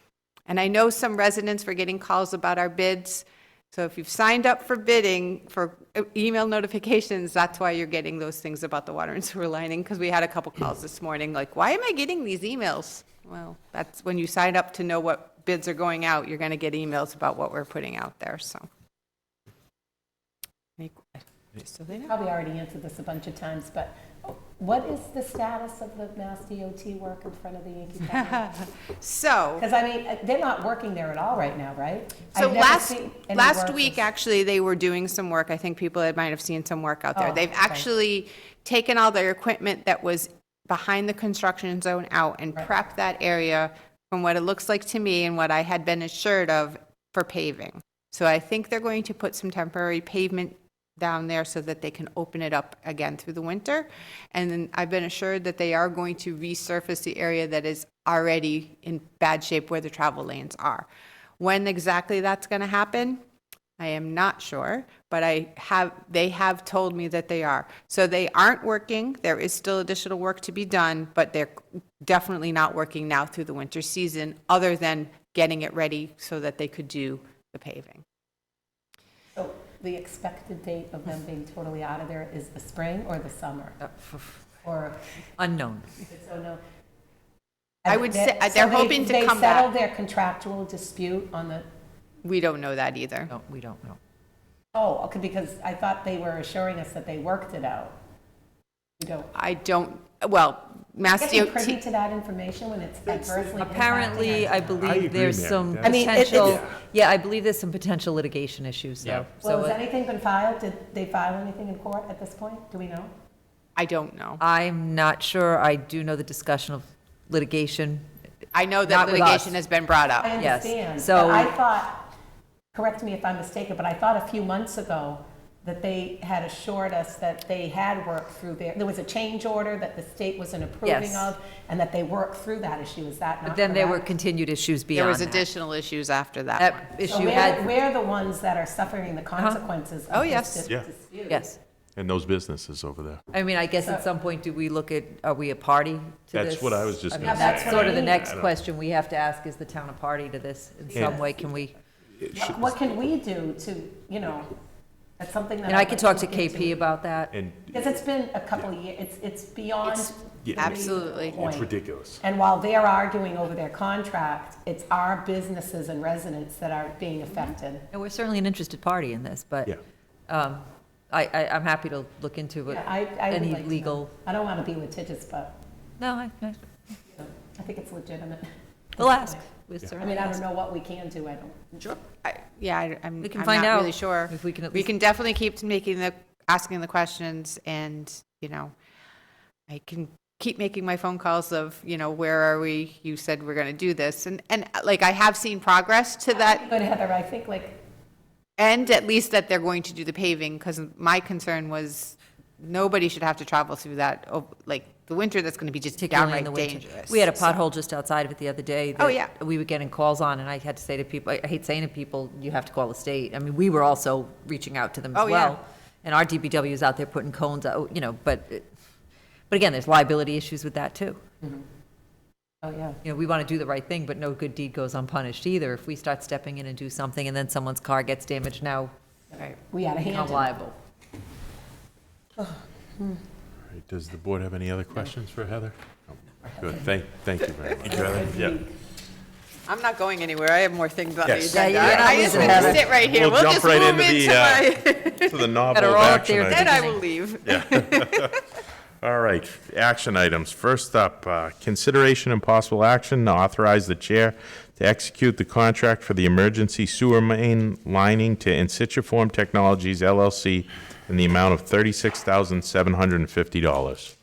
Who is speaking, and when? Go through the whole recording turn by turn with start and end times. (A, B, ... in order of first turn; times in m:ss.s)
0:00.5-0:18.7 A
0:20.8-0:22.1 A
0:22.0-0:28.5 B
0:28.2-0:29.6 A
0:29.6-0:34.0 B
0:32.3-1:00.9 A
0:37.1-0:37.8 B
1:01.4-1:03.2 A
1:03.8-1:18.0 A
1:19.3-1:23.9 B
1:23.8-1:24.4 C
1:24.6-1:25.0 B
1:25.4-1:25.9 C
1:26.0-1:26.6 B
1:27.8-1:31.6 B
1:27.9-1:29.7 A
1:32.2-1:33.3 A
1:33.3-1:34.0 C
1:34.7-1:38.0 B
1:39.0-1:39.3 B
1:39.3-1:41.8 A
1:41.1-1:45.1 B
1:43.1-1:43.5 D
1:43.6-1:49.8 C
1:44.7-1:46.8 D
1:45.8-1:46.6 B
1:49.4-1:53.1 B
1:53.8-1:54.4 A
1:54.4-1:58.0 C
1:58.5-2:00.4 A
1:58.8-1:59.6 C
2:00.2-2:02.1 B
2:00.4-2:01.5 C
2:02.7-2:14.1 B
2:10.8-2:11.3 C
2:13.4-2:15.4 C
2:14.9-2:16.9 A
2:16.6-2:17.7 C
2:17.0-2:21.4 B
2:19.4-2:19.6 C
2:20.1-2:20.7 A
2:21.3-2:21.6 C
2:22.0-2:23.2 D
2:23.3-2:31.8 C
2:26.3-2:28.5 D
2:27.2-2:28.2 B
2:30.9-2:31.3 D
2:32.2-2:32.8 D
2:32.3-2:34.5 B
2:35.2-2:36.8 B
2:35.6-2:37.3 C
2:37.3-2:37.9 D
2:37.7-2:47.8 B
2:40.4-2:42.2 D
2:40.5-2:41.4 A
2:47.9-2:49.7 C
2:50.3-2:54.1 C
2:52.7-2:55.5 B
2:56.0-2:56.6 C
2:57.1-2:59.4 B
2:59.0-3:00.4 C
3:00.0-3:01.6 B
3:02.2-3:08.7 A
3:03.2-3:04.9 C
3:09.7-3:16.6 A
3:16.5-3:17.8 B
3:18.6-3:27.6 A
3:26.0-3:38.7 C
3:29.0-3:29.3 A
3:35.1-3:35.6 A
3:39.5-3:41.2 C
3:42.6-3:43.0 B
3:43.0-3:48.9 C
3:49.3-3:50.6 B
3:50.1-3:50.7 C
3:52.4-3:53.2 B
3:53.6-3:58.6 D
3:57.8-3:58.7 B
3:59.7-4:05.5 A
4:01.2-4:06.9 D
4:01.5-4:02.8 C
4:05.7-4:07.0 C
4:06.5-4:08.4 A
4:07.4-4:08.4 D
4:09.0-4:24.1 D